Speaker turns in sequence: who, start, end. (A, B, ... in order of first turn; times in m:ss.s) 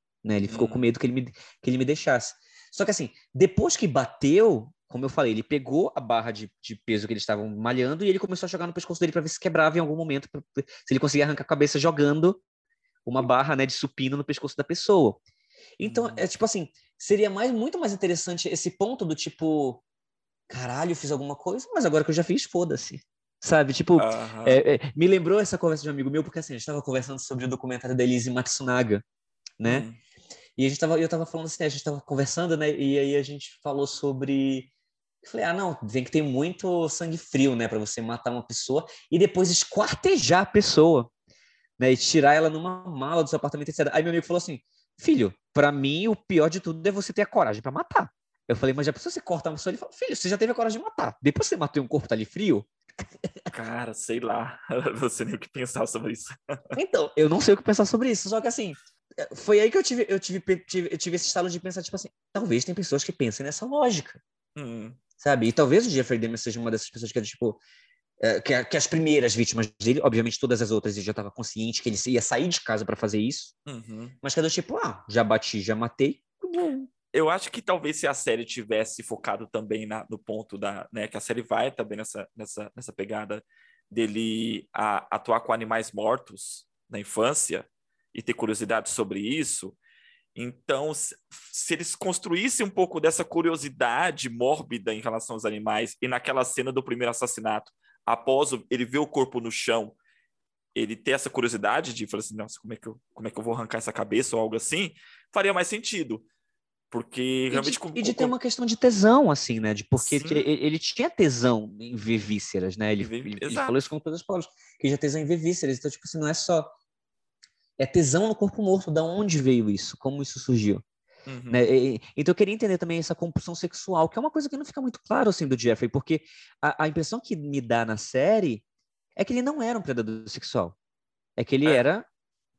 0:00.2-0:12.4 A
0:00.5-0:00.9 B
0:13.1-0:15.2 A
0:15.8-0:19.8 A
0:15.8-0:16.2 B
0:20.5-0:29.0 A
0:24.0-0:24.6 B
0:29.6-0:29.9 A
0:29.6-0:30.0 B
0:30.6-0:34.7 A
0:35.2-0:41.1 A
0:41.8-0:52.7 A
0:53.2-0:53.5 A
0:53.5-0:56.8 B
0:56.8-1:04.2 A
1:04.6-1:05.0 B
1:05.2-1:07.6 A
1:08.2-1:13.6 A
1:13.7-1:14.2 B
1:14.2-1:16.9 A
1:17.1-1:29.8 B
1:30.4-1:40.0 B
1:40.8-1:46.2 B
1:46.9-1:48.3 B
1:47.5-1:56.7 A
1:50.0-1:50.5 B
1:53.0-1:53.8 B
1:57.8-2:00.8 A
2:01.3-2:01.7 B
2:01.5-2:08.6 A
2:09.2-2:10.8 A
2:11.4-2:12.1 A